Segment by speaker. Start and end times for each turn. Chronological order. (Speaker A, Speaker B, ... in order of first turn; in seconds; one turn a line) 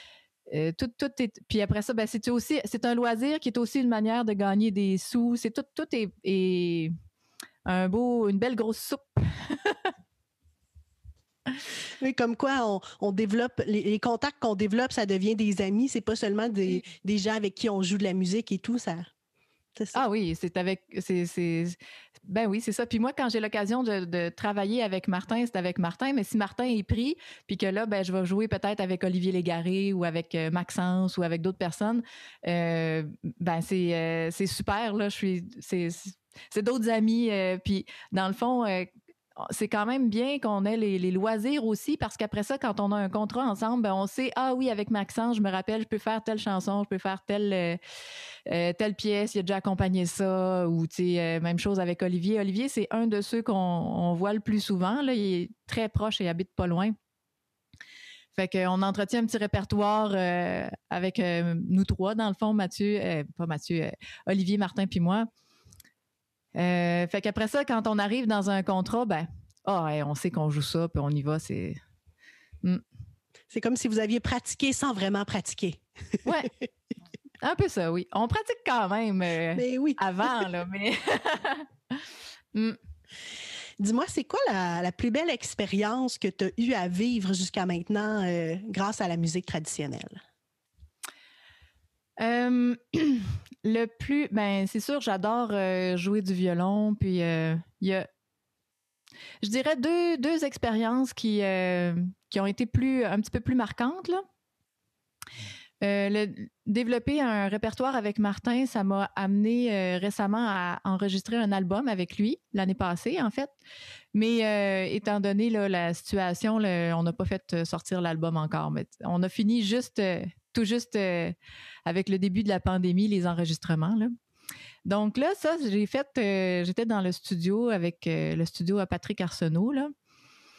Speaker A: 0.5-6.9
Speaker A: 7.7-9.9
Speaker B: 12.0-19.1
Speaker B: 19.8-20.0
Speaker A: 19.9-47.8
Speaker A: 48.5-57.0
Speaker A: 58.3-65.3
Speaker A: 66.5-71.8
Speaker B: 73.5-75.8
Speaker A: 76.2-76.5
Speaker A: 77.4-82.0
Speaker B: 79.5-80.3
Speaker B: 83.8-90.2
Speaker A: 92.2-98.1
Speaker A: 99.4-104.2
Speaker A: 105.8-113.5
Speaker A: 114.1-124.1
Speaker A: 124.8-129.9